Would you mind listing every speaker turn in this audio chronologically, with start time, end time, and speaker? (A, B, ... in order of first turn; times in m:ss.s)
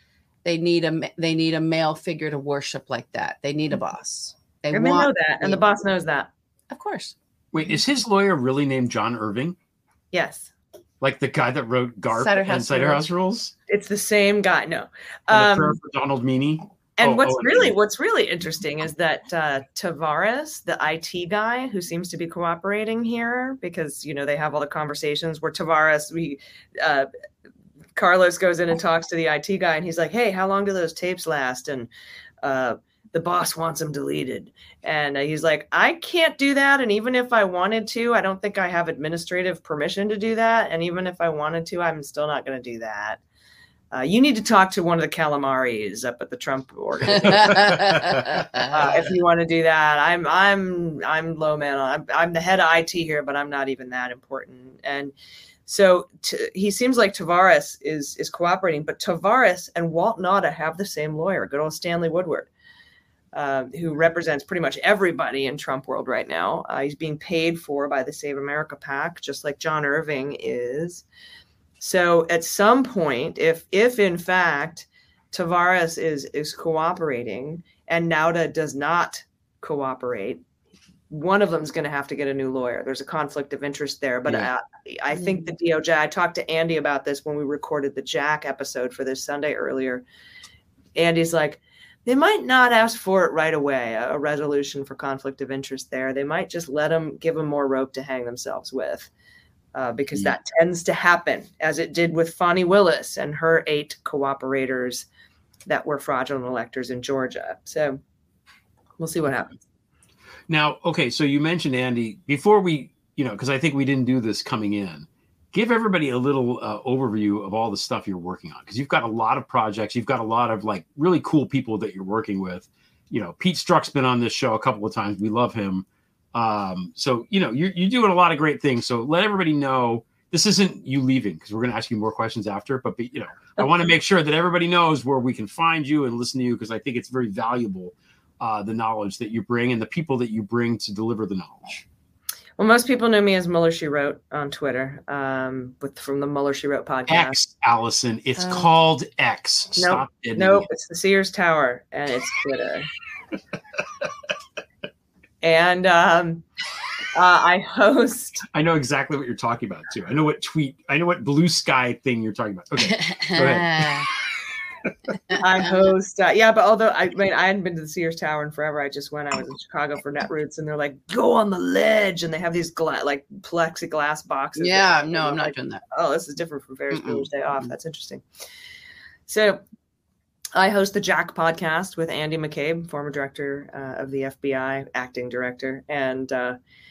0:00.4-0:05.6 A
0:04.7-0:06.3 B
0:06.7-0:07.1 A
0:07.5-0:09.6 C
0:10.1-0:10.5 B
0:11.0-0:13.5 C
0:12.1-0:13.0 A
0:13.7-0:15.8 B
0:15.3-0:17.8 C
0:17.0-0:27.1 B
0:28.0-0:31.9 B
0:32.4-0:43.2 B
0:43.9-0:47.8 B
0:47.0-0:48.5 C
0:47.1-0:48.7 A
0:48.6-0:55.1 B
0:55.6-1:02.5 B
1:03.3-1:11.0 B
1:11.8-1:20.4 B
1:21.1-1:30.0 B
1:25.2-1:25.4 A
1:31.0-1:39.1 B
1:39.7-1:45.1 B
1:45.7-1:48.0 B
1:49.0-1:49.5 B
1:50.5-2:21.8 C
2:22.6-2:27.3 B
2:27.1-2:30.7 C
2:28.4-2:28.7 A
2:29.8-2:32.9 B
2:35.4-2:36.4 B
2:37.1-2:38.4 B
2:38.5-2:44.0 C
2:42.9-2:44.1 A
2:45.3-2:58.2 B
2:54.6-2:55.8 A
2:56.9-2:57.3 A
2:59.3-2:59.6 B
3:00.5-3:06.6 B